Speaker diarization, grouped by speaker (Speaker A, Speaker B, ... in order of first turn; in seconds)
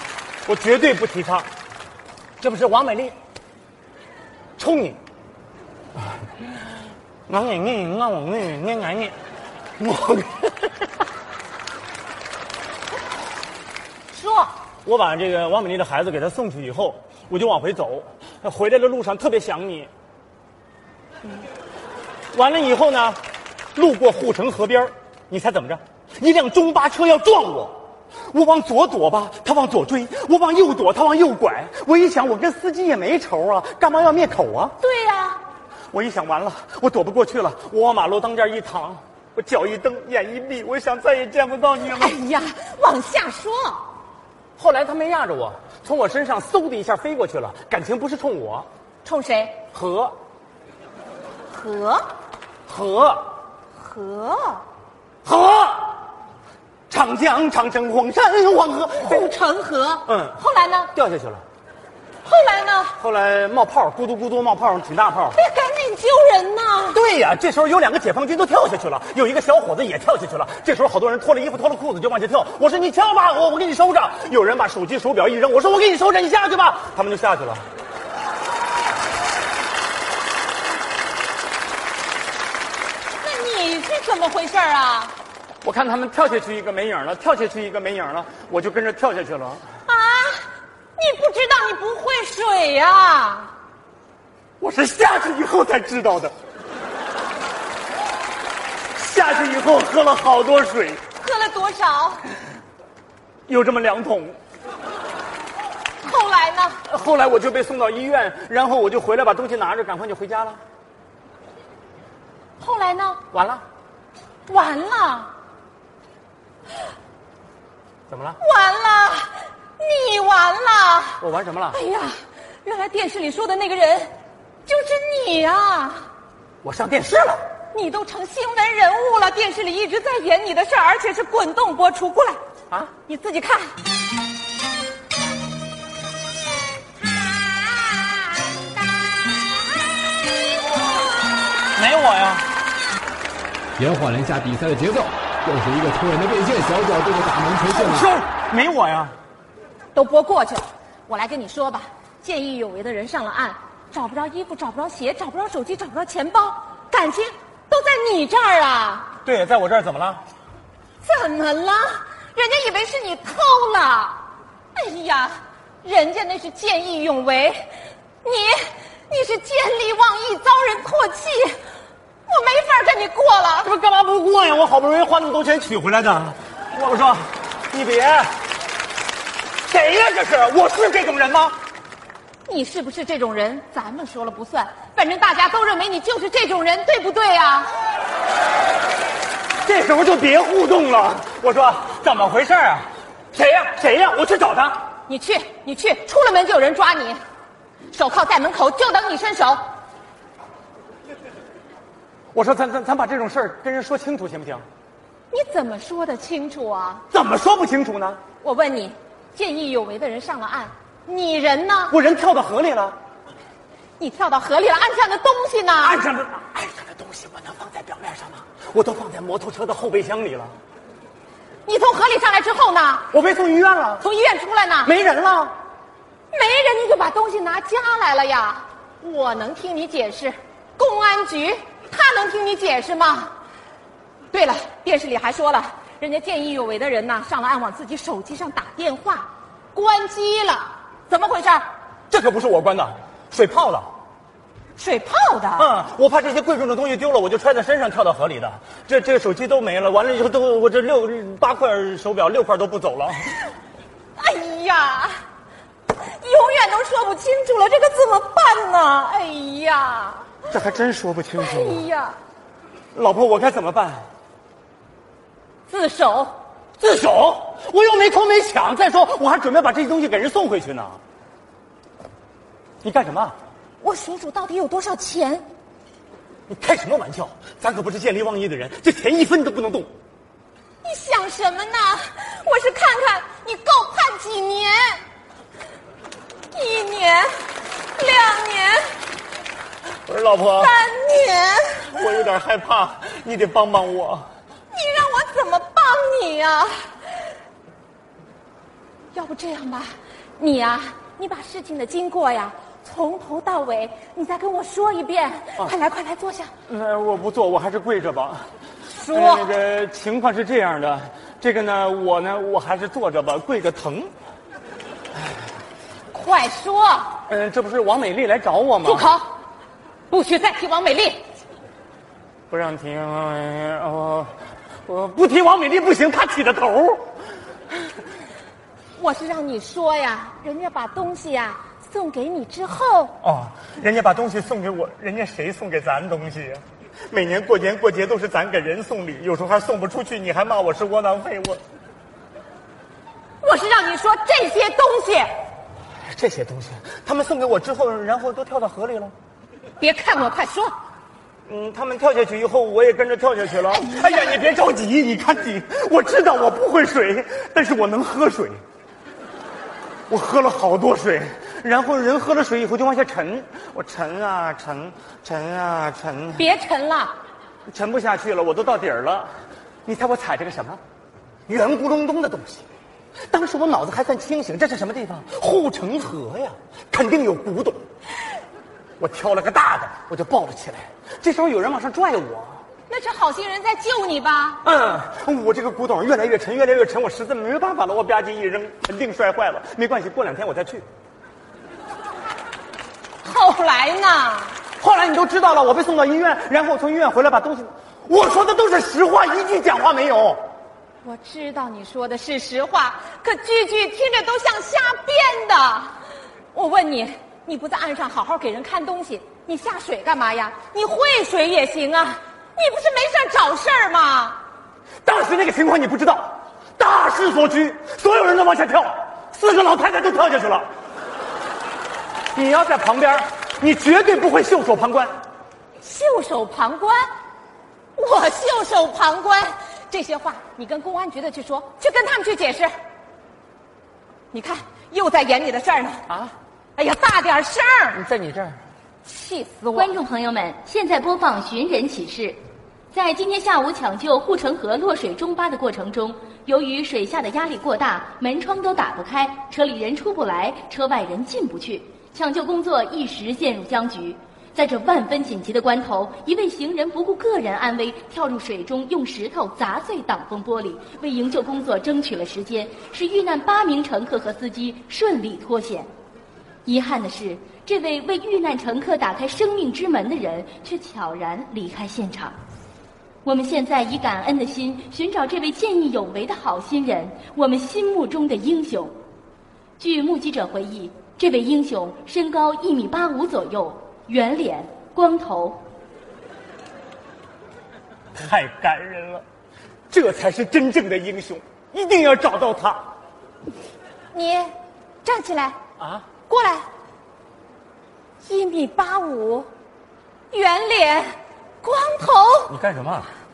Speaker A: 0.5-1.5, 2.4-3.1, 4.6-5.0, 7.3-9.2, 9.8-10.7, 14.8-19.9, 22.3-23.2, 23.8-27.8, 28.3-34.8, 35.9-42.2, 44.6-48.7, 49.7-50.1, 52.7-53.2, 55.2-56.0, 56.9-59.3, 60.1-60.4, 60.9-61.4, 63.0-65.4, 66.9-77.7, 85.6-89.7, 94.6-96.3, 99.0-101.0, 103.5-104.4, 106.9-110.6, 113.3-113.6, 118.1-118.4, 121.2-121.8, 126.6-127.4, 141.7-142.5, 147.7-149.2, 159.2-160.2, 173.6-178.3, 179.7-181.6, 189.6-194.9, 202.3-204.7, 207.1-208.2, 211.9-213.0, 215.8-220.6, 223.1-224.1, 224.8-225.5, 242.1-243.9, 245.6-253.4, 260.5-261.9, 262.9-264.1, 266.8-271.0, 272.8-273.4, 276.5-279.9, 290.1-290.7, 291.9-294.3, 306.7-308.5, 309.1-314.1, 317.3-319.1, 322.5-324.3, 324.9-327.1, 333.2-341.6, 346.1-349.1, 351.5-358.6, 360.1-366.5, 367.7-369.3, 369.9-370.8, 371.5-372.7, 373.3-377.8, 379.0-382.6, 384.6-390.9, 394.8-400.4, 415.0-420.7, 422.3-425.1, 436.1-436.3, 437.9-438.6, 488.1-489.2, 489.9-492.9, 495.8-496.1, 502.5-503.1
Speaker B: 14.1-14.5, 34.8-35.4, 41.9-43.9, 49.0-49.6, 51.5-52.1, 53.8-54.6, 59.0-60.9, 62.2-63.0, 65.3-67.0, 83.2-85.2, 89.9-93.5, 101.2-102.2, 106.0-106.8, 112.6-113.2, 114.5-115.3, 118.4-121.2, 121.7-124.1, 124.7-126.1, 127.7-132.4, 133.1-133.8, 149.9-159.1, 161.0-164.2, 164.7-167.7, 168.2-171.6, 172.3-173.7, 182.5-187.7, 195.1-197.2, 197.9-199.6, 205.3-207.1, 208.4-211.9, 214.0-216.0, 221.7-223.1, 224.0-224.9, 226.3-233.3, 234.3-241.7, 244.8-245.7, 254.2-255.2, 255.9-260.3, 261.4-262.2, 265.7-266.3, 273.8-275.5, 280.8-285.0, 286.5-287.4, 287.9-288.9, 290.5-291.9, 294.7-296.8, 299.1-306.5, 308.9-309.5, 316.1-317.2, 318.8-319.3, 320.1-321.2, 329.0-333.2, 343.4-345.3, 349.8-350.7, 353.7-354.4, 366.4-367.1, 382.9-384.6, 393.2-394.6, 401.0-405.9, 406.5-414.4, 425.8-427.1, 428.0-432.7, 434.3-436.1, 436.8-438.0, 439.0-439.9, 494.1-494.5, 495.0-495.6, 496.3-496.7, 498.2-499.5, 500.3-501.1, 501.6-502.6
Speaker C: 143.8-148.1
Speaker D: 439.7-442.4, 442.9-465.9, 466.7-472.4, 473.2-479.0, 479.8-485.7